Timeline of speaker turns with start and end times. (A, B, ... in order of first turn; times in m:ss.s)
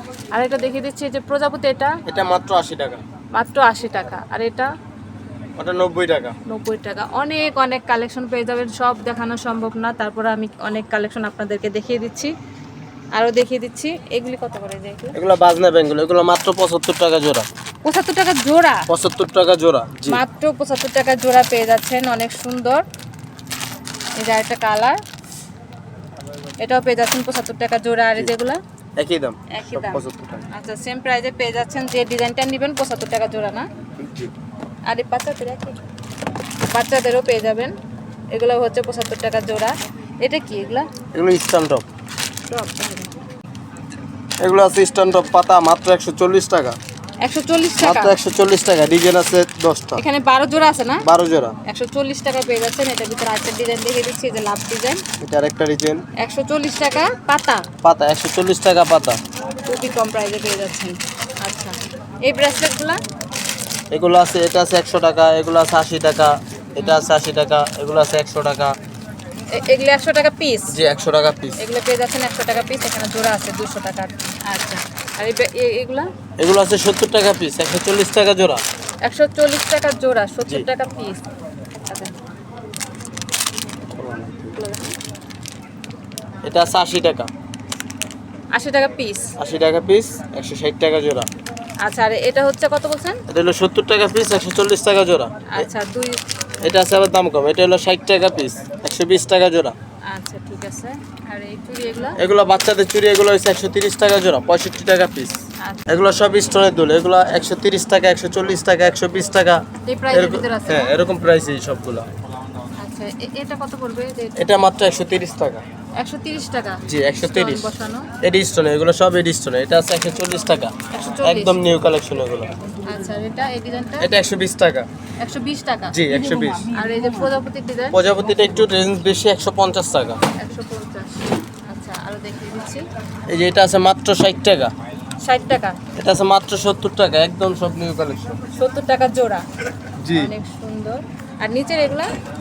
0:00.3-0:02.0 A
0:02.1-0:03.0 B
0:03.3-0:04.7 A
0:05.6-0:06.4 B
0:06.5-0:12.3 A
0:13.2-0:15.2 A
0:15.1-0:17.5 B
0:17.8-0:18.9 A
0:18.9-0:20.2 B
0:20.1-0:22.8 A
0:24.2-0:25.0 A
0:26.6-0:28.6 A
0:29.0-0:30.5 B
0:29.5-0:33.7 A
0:34.0-0:34.3 B
0:34.9-0:35.8 A
0:36.7-0:37.8 A
0:38.3-0:40.9 A
0:41.1-0:41.8 B
0:42.5-0:43.2 A
0:44.4-0:46.8 B
0:47.2-0:48.2 A
0:47.8-0:50.0 B
0:50.0-0:51.0 A
0:51.0-0:51.6 B
0:51.7-0:55.0 A
0:55.2-0:56.0 B
0:56.2-0:57.6 A
0:57.8-0:59.2 B
0:59.7-1:03.0 A
1:03.9-1:08.8 B
1:06.8-1:07.1 A
1:09.5-1:10.7 A
1:10.7-1:11.6 B
1:11.6-1:16.1 A
1:16.4-1:18.6 B
1:19.0-1:21.2 A
1:21.9-1:22.2 A
1:23.9-1:24.6 B
1:24.6-1:25.0 A
1:26.4-1:27.3 B
1:28.5-1:29.3 A
1:29.4-1:31.3 B
1:31.8-1:33.2 A
1:33.3-1:35.7 B
1:35.5-1:36.2 A
1:36.6-1:39.8 B
1:40.1-1:42.2 A
1:42.2-1:52.1 B
1:45.6-1:45.9 A
1:49.8-1:51.0 A
1:52.8-1:54.4 A
1:54.4-1:55.6 B
1:56.0-1:58.1 A
1:56.9-2:02.5 B
2:00.9-2:01.6 A
2:02.8-2:04.1 A
2:04.0-2:04.9 B
2:05.2-2:06.0 A
2:05.9-2:06.7 B
2:06.6-2:08.0 A
2:07.9-2:10.2 B
2:10.4-2:12.8 A
2:13.3-2:14.7 B
2:15.2-2:15.8 A
2:16.0-2:18.4 B
2:18.6-2:19.5 A
2:20.0-2:20.3 B
2:20.2-2:22.1 A